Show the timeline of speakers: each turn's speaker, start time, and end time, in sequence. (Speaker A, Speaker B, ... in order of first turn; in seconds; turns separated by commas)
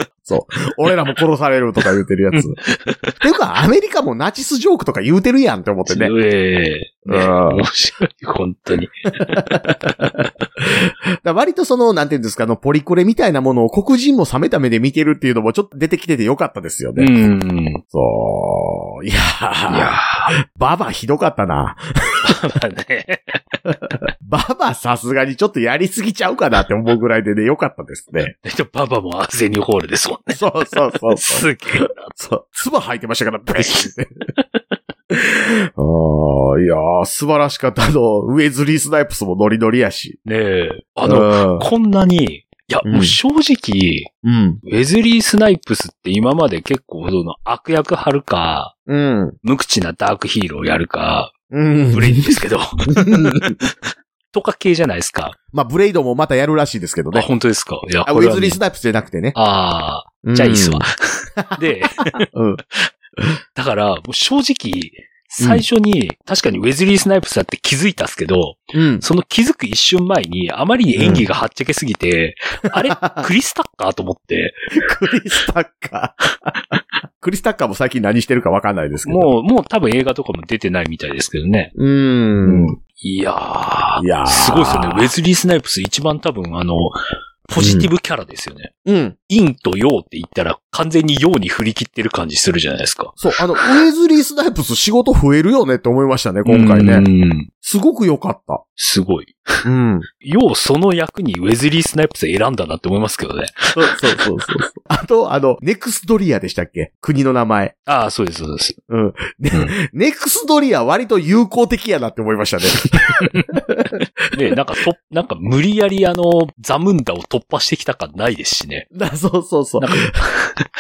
Speaker A: 0.2-2.6, Speaker B: 2.3-3.1, Speaker A: 3.2-6.1, Speaker B: 5.9-10.3, Speaker A: 7.0-7.6, Speaker A: 9.2-10.0, Speaker A: 10.6-17.1, Speaker B: 16.9-17.8, Speaker A: 17.9-22.3, Speaker B: 19.7-20.3, Speaker B: 22.2-23.4, Speaker A: 24.2-28.3, Speaker B: 28.4-30.4, Speaker A: 30.3-34.1, Speaker B: 31.1-32.1, Speaker B: 33.5-33.9, Speaker A: 35.1-40.2, Speaker B: 40.2-44.1, Speaker A: 41.0-41.7, Speaker A: 42.8-43.2, Speaker A: 44.2-44.6, Speaker B: 44.6-48.7, Speaker A: 48.9-49.4, Speaker B: 49.4-51.3, Speaker A: 51.5-52.4, Speaker B: 51.9-53.7, Speaker A: 52.9-53.6, Speaker B: 54.3-55.4, Speaker A: 55.5-57.3, Speaker B: 57.1-58.6, Speaker A: 58.0-59.4, Speaker B: 59.3-62.2, Speaker A: 60.2-62.6, Speaker B: 63.5-74.7, Speaker A: 68.7-69.0, Speaker A: 71.0-71.2, Speaker A: 72.8-73.3, Speaker A: 74.8-76.5, Speaker A: 77.2-79.3, Speaker B: 79.0-81.7, Speaker A: 81.7-82.8, Speaker B: 82.4-88.7, Speaker A: 84.0-85.1, Speaker A: 87.5-87.9, Speaker A: 88.8-89.2, Speaker B: 89.3-93.7, Speaker A: 93.2-97.0, Speaker B: 96.4-97.5, Speaker A: 97.6-98.6, Speaker B: 98.8-99.6, Speaker A: 99.6-100.1, Speaker B: 100.2-104.0, Speaker A: 103.8-107.7, Speaker B: 107.9-108.8, Speaker A: 108.9-113.9, Speaker B: 113.1-113.5, Speaker B: 114.3-118.9, Speaker A: 118.9-120.1, Speaker B: 119.8-120.7